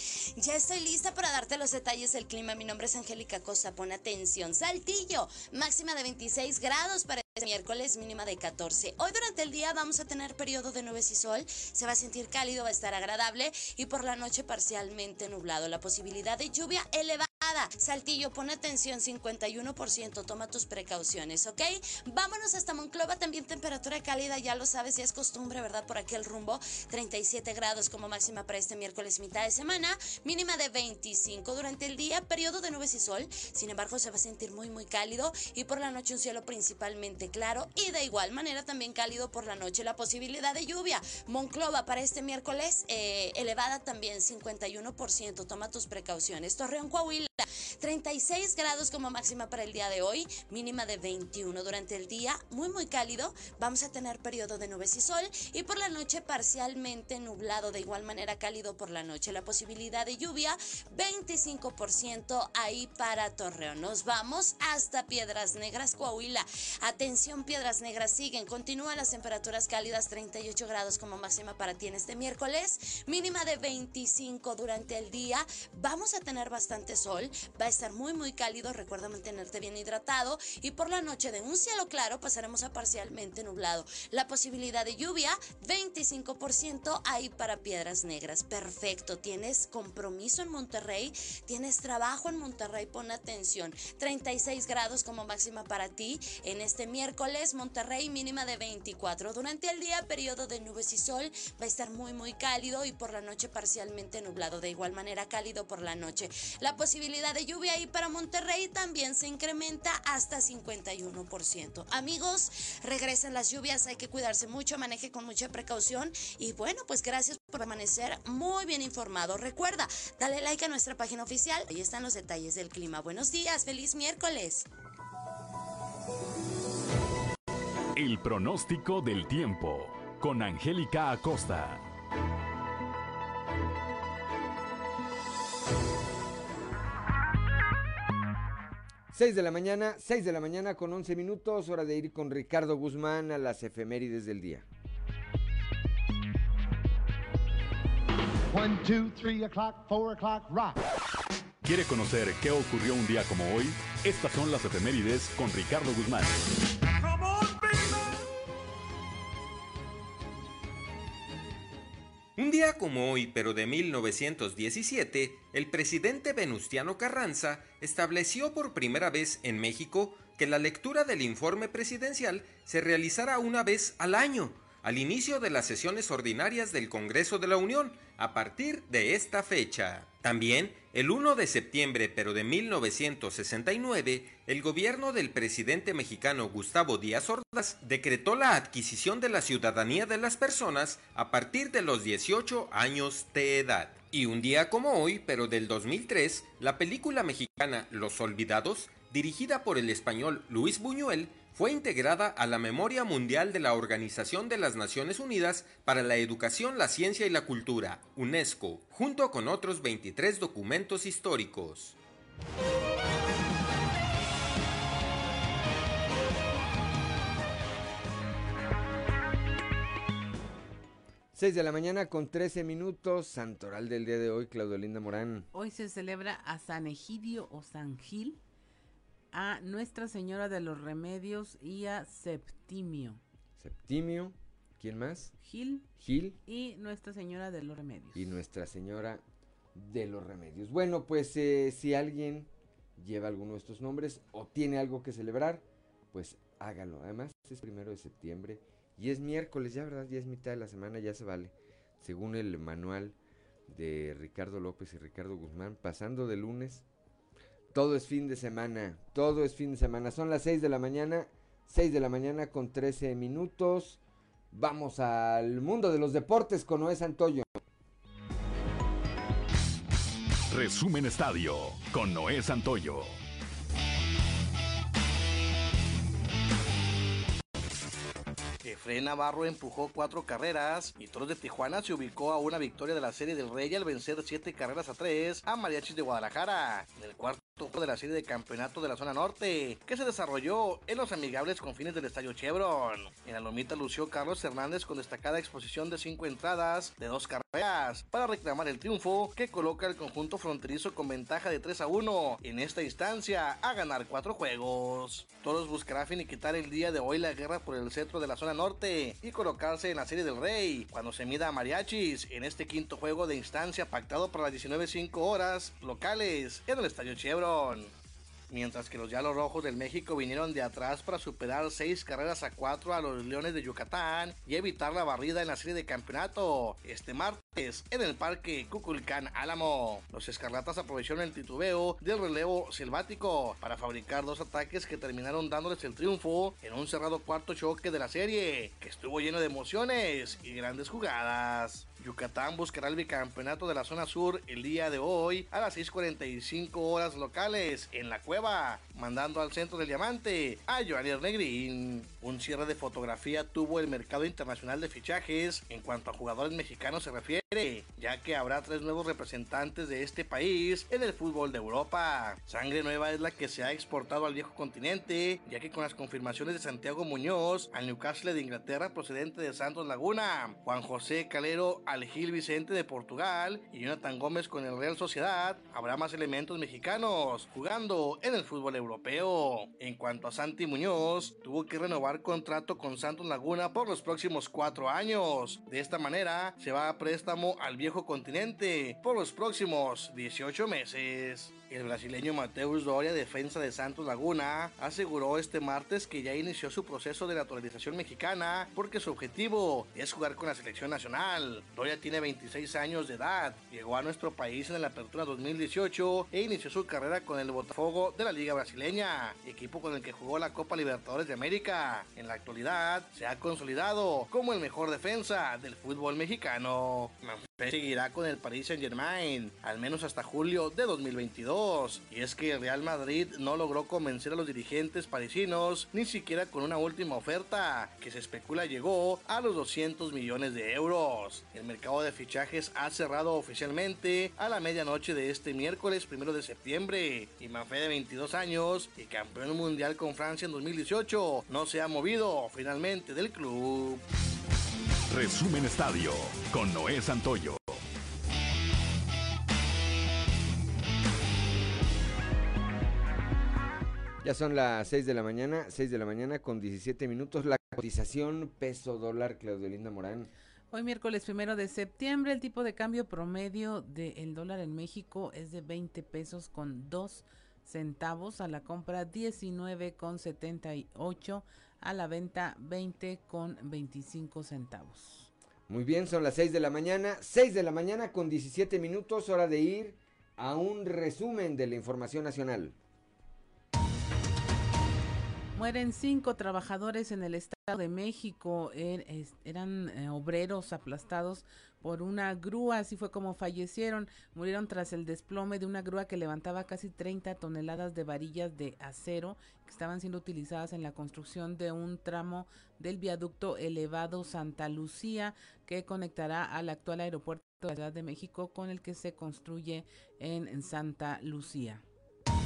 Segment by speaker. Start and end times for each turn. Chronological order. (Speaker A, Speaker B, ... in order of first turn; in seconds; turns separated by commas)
Speaker A: 0.3-124.7, Speaker B: 128.0-131.8, Speaker C: 139.1-144.6, Speaker D: 148.5-150.8, Speaker B: 151.6-156.4, Speaker D: 157.0-158.0, Speaker E: 162.4-212.0, Speaker C: 221.3-225.5, Speaker F: 225.5-228.4, Speaker F: 229.3-233.2, Speaker C: 233.6-235.3, Speaker F: 235.4-235.9, Speaker C: 236.0-236.4, Speaker F: 236.5-238.4, Speaker C: 238.1-239.2, Speaker C: 239.8-253.2, Speaker C: 253.7-256.9, Speaker C: 257.7-264.0, Speaker C: 264.5-267.6, Speaker B: 270.5-273.2, Speaker G: 278.6-317.9, Speaker G: 318.5-444.0, Speaker B: 445.1-447.8, Speaker C: 454.2-460.3, Speaker F: 460.7-475.3, Speaker C: 475.7-482.8, Speaker F: 485.6-511.8